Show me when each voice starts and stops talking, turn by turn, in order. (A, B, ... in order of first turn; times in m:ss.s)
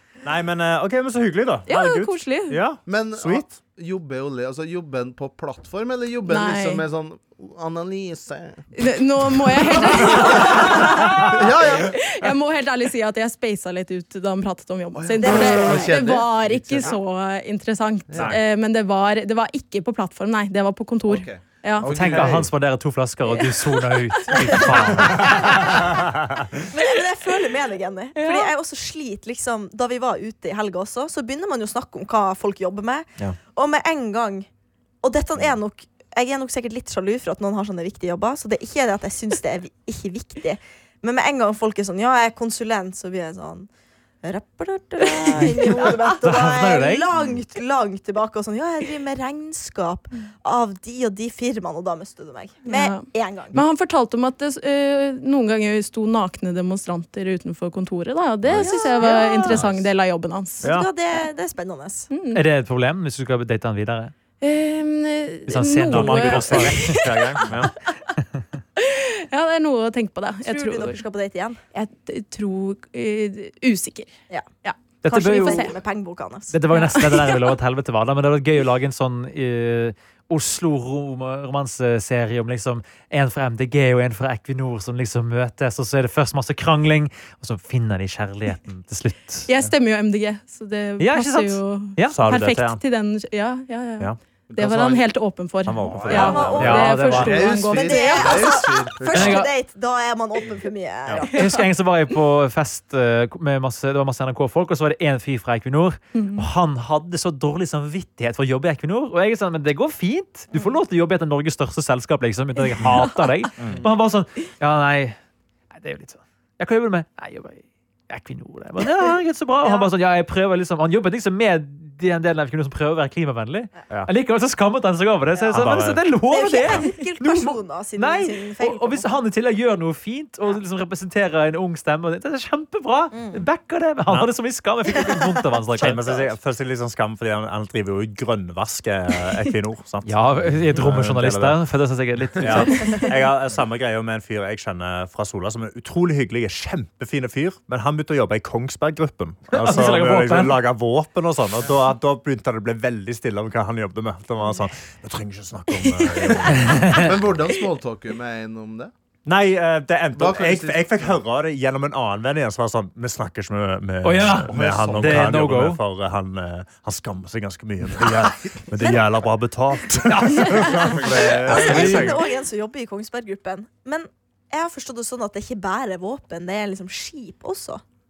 0:00.2-0:03.5 A
0:01.7-0:02.6 B
0:02.9-0:08.7 C
0:06.3-0:06.8 B
0:08.8-0:21.9 B
0:09.8-0:12.0 C
0:15.0-0:17.0 C
0:15.2-0:15.9 D
0:18.1-0:18.4 C
0:18.2-0:18.4 A
0:21.1-0:22.5 C
0:21.8-0:25.3 E
0:22.0-0:22.4 A
0:24.3-0:25.7 D
0:24.3-0:25.2 B
0:25.0-0:26.6 A
0:26.6-0:34.5 D
0:28.2-0:28.5 B
0:35.0-0:43.7 D
0:44.2-0:53.6 D
0:45.2-0:45.6 B
0:46.2-0:47.1 E
0:52.6-1:00.6 B
0:58.6-0:59.6 D
1:00.6-1:00.9 A
1:00.6-1:02.1 D
1:02.1-1:02.4 B
1:02.3-1:04.1 E
1:04.4-1:07.6 B
1:05.5-1:07.0 E
1:05.9-1:07.7 A
1:08.8-1:11.0 B
1:10.4-1:11.6 D
1:11.7-1:14.1 B
1:14.6-1:15.8 B
1:15.0-1:15.7 E
1:15.1-1:16.6 D
1:16.5-1:29.5 E
1:16.7-1:17.6 B
1:29.5-1:38.4 B
1:31.0-1:32.2 E
1:32.1-1:32.8 A
1:34.5-1:35.1 C
1:35.7-1:37.1 A
1:35.9-1:36.3 C
1:36.1-1:37.1 D
1:36.6-1:37.5 E
1:36.9-1:39.4 C
1:37.7-1:41.5 D
1:39.1-1:39.5 E
1:41.3-1:55.2 E
1:46.1-1:46.5 B
1:50.5-1:50.8 D
1:52.7-1:53.3 B
1:53.6-1:53.8 A
1:55.7-2:16.0 E
1:59.6-1:59.9 D
2:05.4-2:05.6 D
2:05.5-2:06.0 A
2:06.3-2:09.1 D
2:13.1-2:13.5 D
2:14.1-2:14.3 A
2:15.8-2:21.6 A
2:16.0-2:16.3 D
2:20.0-2:23.0 E
2:22.4-2:37.3 A
2:29.5-2:30.6 E
2:35.9-2:36.4 B
2:36.6-2:37.1 E
2:36.9-2:38.9 C
2:39.3-2:52.2 A
2:40.2-2:41.0 C
2:44.0-2:45.8 E
2:44.5-2:45.2 C
2:50.1-2:50.8 E
2:50.6-2:57.8 D
2:51.5-2:52.1 E